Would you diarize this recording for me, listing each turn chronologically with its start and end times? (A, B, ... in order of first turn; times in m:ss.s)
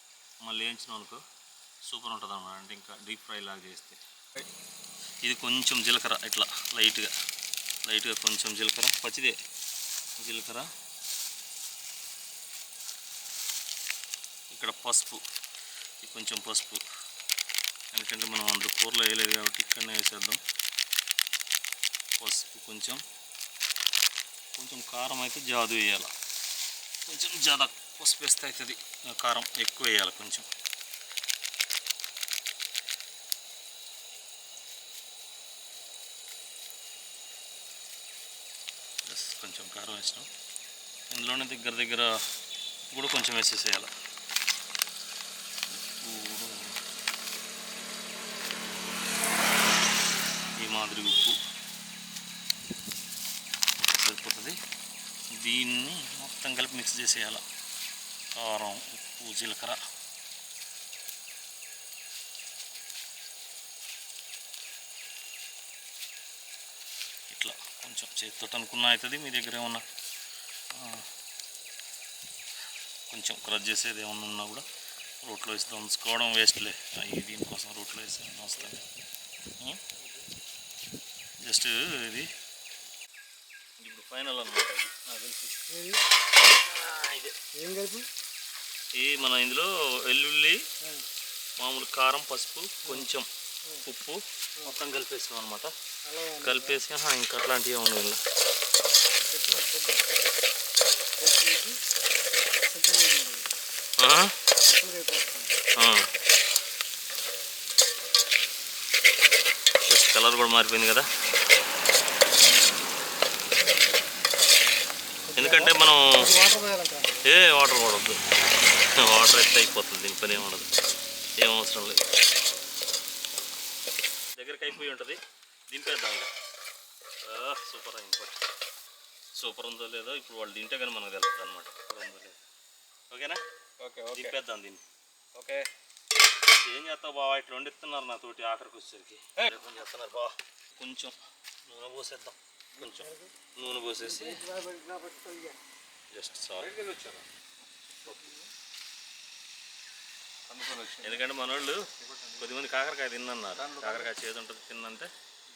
0:00.4-0:01.2 A
0:01.9-0:04.0 A
0:05.2-0:07.1 A
0:07.9-0:09.4 A
0:10.2-0:10.7 A
0:14.5-0:15.2 A
0:16.0-0:16.8 A
0:17.9-0:20.4 A
0:22.2-0:23.0 A
0:24.6-0:26.1 A
0:27.1-0:30.5 A
0:39.0-0:40.3 A
0:41.1-0:42.2 A
0:42.8-0:43.9 A
0:45.7-0:46.8 A
0:50.6-0:51.4 A
0:53.8-0:54.6 A
0:55.4-0:57.4 A
0:58.4-0:59.8 A
1:07.3-1:09.8 A
1:10.7-1:11.1 A
1:13.1-1:14.6 A
1:15.2-1:18.9 A
1:21.4-1:22.3 A
1:23.8-1:25.6 A
1:25.7-1:26.0 B
1:26.4-1:27.4 A
1:27.5-1:28.1 B
1:29.0-1:30.6 A
1:31.6-1:33.3 A
1:33.8-1:35.7 A
1:36.1-1:36.8 B
1:36.4-1:38.2 A
1:39.2-1:40.1 B
1:41.2-1:41.8 B
1:42.6-1:43.5 B
1:44.0-1:44.3 A
1:44.6-1:45.5 B
1:45.8-1:46.1 A
1:49.9-1:51.1 A
1:55.3-1:57.1 B
1:55.4-1:56.3 A
1:57.2-1:58.2 A
1:58.8-2:00.7 A
2:01.4-2:02.0 A
2:04.4-2:05.2 A
2:05.7-2:06.3 A
2:07.2-2:08.4 A
2:09.4-2:12.4 A
2:13.1-2:13.4 A
2:13.8-2:14.4 C
2:14.2-2:14.8 A
2:15.4-2:15.7 C
2:16.5-2:24.4 A
2:23.0-2:23.3 B
2:24.1-2:25.6 B
2:26.1-2:26.7 A
2:26.6-2:27.3 C
2:28.1-2:28.3 C
2:30.5-2:31.3 C
2:31.0-2:31.9 A
2:32.0-2:32.5 C
2:32.4-2:35.1 A
2:33.6-2:34.2 C